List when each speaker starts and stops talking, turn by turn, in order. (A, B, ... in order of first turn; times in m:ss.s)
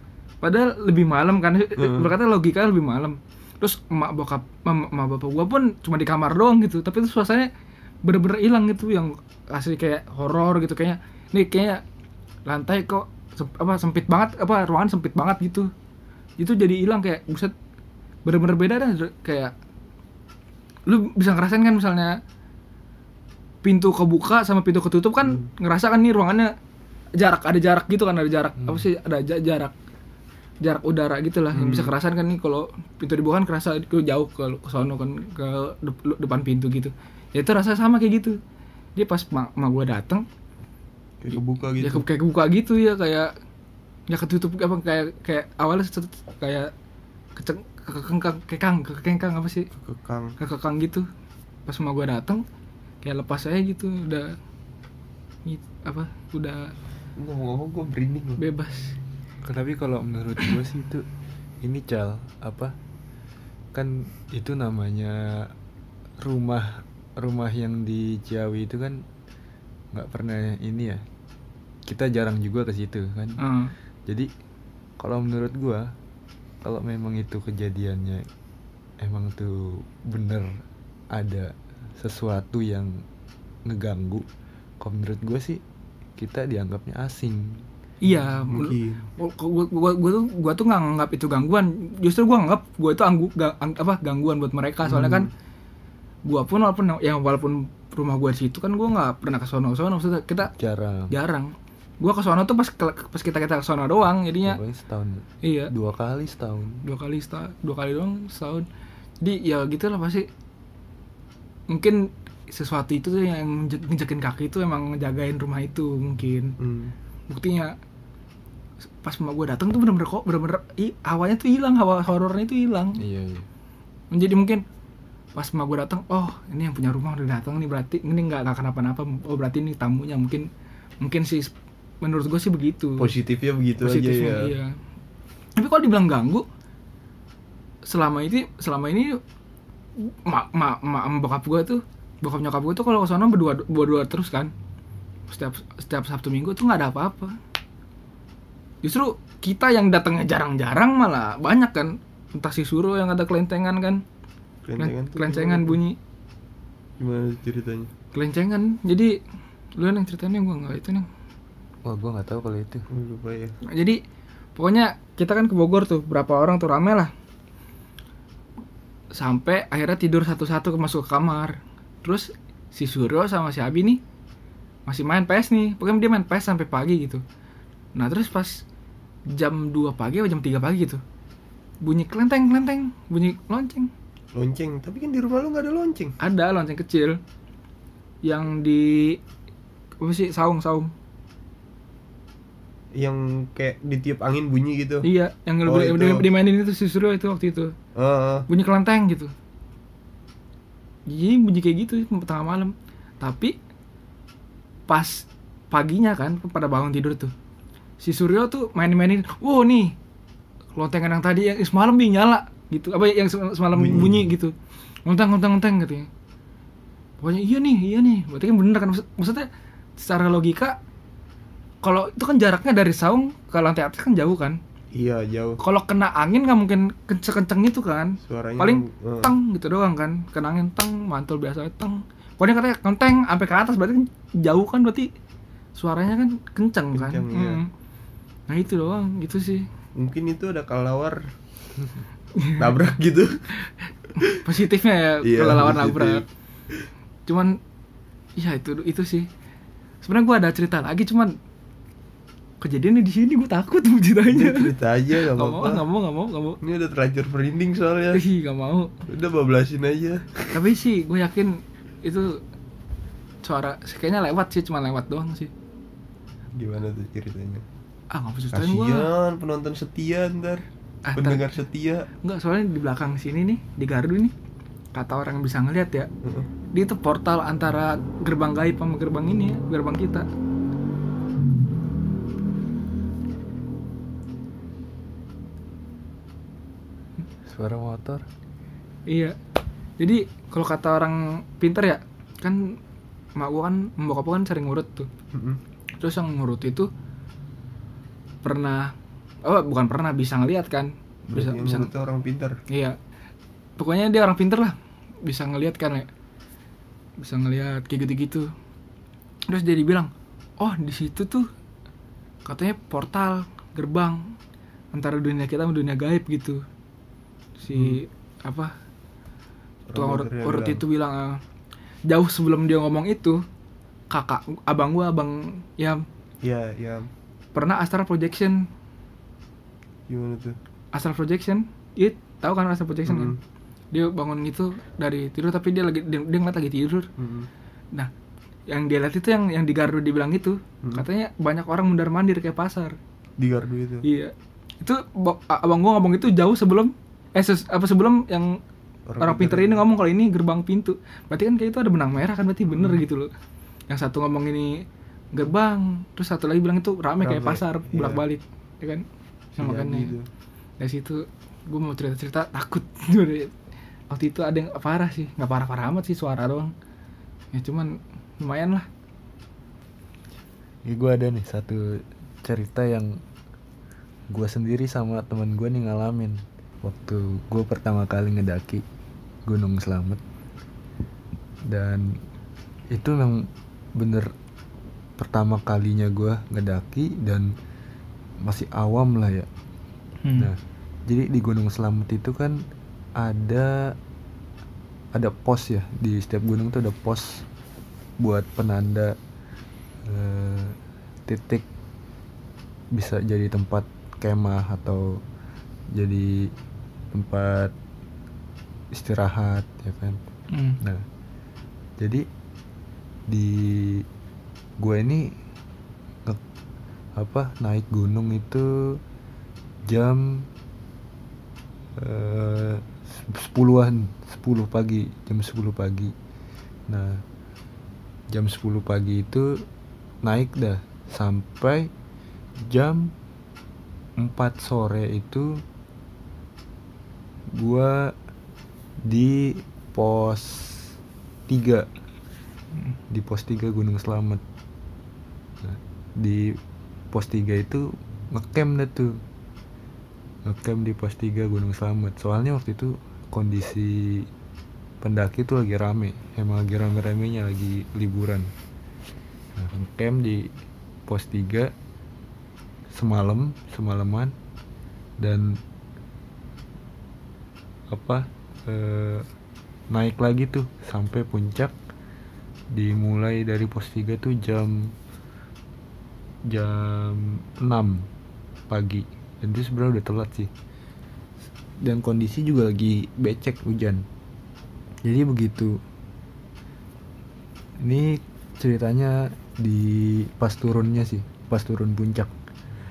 0:00.4-0:07.5 A
0:01.8-0:02.1 B
0:08.0-0:11.8 A
0:12.5-0:15.7 A
0:16.4-0:17.5 A
0:18.2-0:19.5 A
0:20.9-0:22.2 A
0:23.6-0:26.5 A
0:27.2-0:29.7 A
0:28.6-0:28.9 C
0:30.6-0:38.4 A
0:31.5-0:31.9 B
0:39.0-0:40.3 A
0:41.2-0:42.0 B
0:41.3-0:43.3 A
0:44.1-0:46.7 A
0:47.4-0:49.7 A
0:49.8-0:50.4 B
0:50.4-0:51.1 A
0:51.7-0:52.4 A
0:53.0-0:54.4 A
0:55.5-0:56.7 A
0:57.2-0:58.4 B
0:58.4-0:59.0 A
0:59.4-1:01.1 C
1:01.6-1:02.8 C
1:03.7-1:05.5 C
1:06.2-1:09.0 C
1:09.9-1:11.0 C
1:11.9-1:13.4 C
1:13.4-1:13.7 A
1:15.0-1:15.9 C
1:16.6-1:18.3 C
1:19.0-1:23.0 C
1:23.7-1:24.2 C
1:24.8-1:25.6 C
1:26.2-1:27.7 C
1:28.0-1:35.3 A
1:28.5-1:29.1 B
1:34.9-1:35.3 B
1:36.3-1:40.5 A
1:40.6-1:41.1 C
1:41.1-1:44.6 A
1:44.4-1:46.8 C
1:45.4-1:45.7 A
1:46.8-1:48.7 A
1:49.2-1:50.3 A
1:51.7-1:56.6 A
1:56.6-1:57.0 B
1:57.3-1:57.8 A
1:59.0-2:03.0 A
2:03.0-2:03.5 C
2:04.1-2:04.6 A
2:05.4-2:10.5 A
2:11.0-2:13.1 A
2:13.0-2:14.5 B
2:13.8-2:14.8 A
2:15.6-2:16.5 A
2:17.8-2:19.2 A
2:20.0-2:24.5 A
2:25.3-2:27.4 A
2:28.8-2:34.0 A
2:34.6-2:35.8 B
2:34.8-2:36.0 A
2:37.0-2:37.9 B
2:38.1-2:39.2 A
2:39.8-2:41.1 A
2:41.8-2:42.9 C
2:42.9-2:43.6 B
2:43.6-2:44.0 A
2:44.6-2:47.1 A
2:49.1-2:54.0 A
2:54.9-2:57.2 A
2:58.0-2:58.6 A
2:59.3-3:01.0 A
3:01.8-3:03.9 A
3:04.3-3:06.2 B
3:06.2-3:07.2 A
3:08.2-3:09.2 A
3:10.0-3:10.9 A
3:13.0-3:15.1 B
3:15.0-3:17.7 A
3:15.7-3:16.2 B
3:18.0-3:18.5 B
3:18.5-3:19.3 A
3:21.1-3:23.6 A
3:24.9-3:27.3 A
3:28.0-3:30.0 A
3:30.8-3:34.5 A
3:33.7-3:34.3 B
3:35.0-3:36.1 A
3:37.2-3:40.8 A
3:41.8-3:44.6 A
3:44.9-3:45.6 B
3:45.6-3:55.1 A
3:48.2-3:49.3 B
3:55.8-3:57.7 A
3:56.9-3:57.6 B
3:58.5-3:59.7 A
4:00.0-4:01.2 B
4:02.4-4:02.7 A
4:02.6-4:03.4 B
4:03.6-4:06.2 A
4:05.2-4:06.3 B
4:07.3-4:07.6 A
4:08.4-4:09.3 A
4:10.0-4:11.3 A
4:12.6-4:16.6 A
4:14.3-4:15.8 B
4:16.6-4:18.2 B
4:18.1-4:18.9 A
4:19.1-4:20.6 B
4:20.5-4:22.4 A
4:23.4-4:25.5 A
4:26.6-4:27.6 B
4:28.1-4:29.1 A
4:28.5-4:30.6 B
4:31.1-4:31.5 A
4:31.2-4:32.1 B
4:32.2-4:34.3 A
4:34.9-4:36.1 A
4:36.7-4:40.3 A
4:47.4-4:48.3 C
4:49.1-4:49.4 A
4:50.0-4:52.8 A
4:53.4-4:55.1 A
4:55.3-4:55.6 B
4:56.0-4:56.9 A
4:58.4-4:58.9 A
4:59.4-5:01.9 A
5:01.3-5:02.6 B
5:02.7-5:03.0 A
5:03.8-5:06.1 A
5:07.2-5:08.5 A
5:09.5-5:11.5 A
5:12.4-5:14.3 A
5:14.9-5:16.6 A
5:17.6-5:18.7 A
5:17.7-5:18.0 B
5:19.9-5:20.8 B
5:20.0-5:21.4 A
5:22.1-5:23.4 A
5:24.1-5:26.0 A
5:26.4-5:27.1 B
5:27.6-5:28.6 A
5:30.1-5:30.6 B
5:30.9-5:33.4 A
5:33.1-5:33.4 B
5:33.9-5:37.1 A
5:37.2-5:37.5 B
5:38.7-5:43.0 A
5:43.4-5:44.0 B
5:44.0-5:48.6 A
5:49.1-5:49.8 B
5:49.2-5:53.3 A
5:52.7-5:53.0 B
5:53.9-5:59.0 A
5:57.2-5:58.2 B
5:59.6-6:00.1 A
5:59.6-6:00.2 B
6:00.8-6:03.6 A
6:04.1-6:06.7 A
6:07.5-6:08.9 A
6:10.8-6:13.2 C
6:14.3-6:18.8 C
6:19.5-6:20.2 C
6:21.7-6:22.2 C
6:22.9-6:24.3 C
6:25.2-6:27.5 C
6:28.4-6:29.5 C
6:30.2-6:30.5 A
6:30.4-6:32.6 C
6:33.2-6:34.0 C
6:35.1-6:37.5 C
6:38.2-6:39.2 C
6:40.0-6:41.7 C
6:42.9-6:45.2 C
6:45.9-6:46.5 C
6:47.1-6:47.7 C
6:48.9-6:50.2 C
6:50.5-6:50.8 A
6:50.8-6:51.1 C
6:52.0-6:52.2 C
6:53.3-6:54.0 C
6:54.8-6:55.3 C
6:57.2-6:59.0 C
6:59.9-7:00.5 C
7:02.0-7:06.1 C
7:06.9-7:07.2 C
7:08.3-7:09.6 C
7:10.2-7:11.9 C
7:12.7-7:13.1 C
7:14.2-7:15.6 C
7:17.5-7:18.1 C
7:19.0-7:21.0 C
7:21.5-7:21.9 C
7:23.1-7:24.4 C
7:25.6-7:26.6 C
7:27.1-7:29.2 C
7:30.4-7:34.3 C
7:35.0-7:38.5 C
7:39.6-7:40.5 C
7:41.1-7:41.7 C
7:42.9-7:44.3 C
7:45.2-7:45.6 C
7:47.9-7:49.3 C
7:49.9-7:51.8 C
7:52.7-7:55.0 C
7:56.5-7:58.1 C
7:58.7-8:00.5 C
8:01.8-8:04.0 C
8:05.0-8:05.8 C
8:07.8-8:12.3 C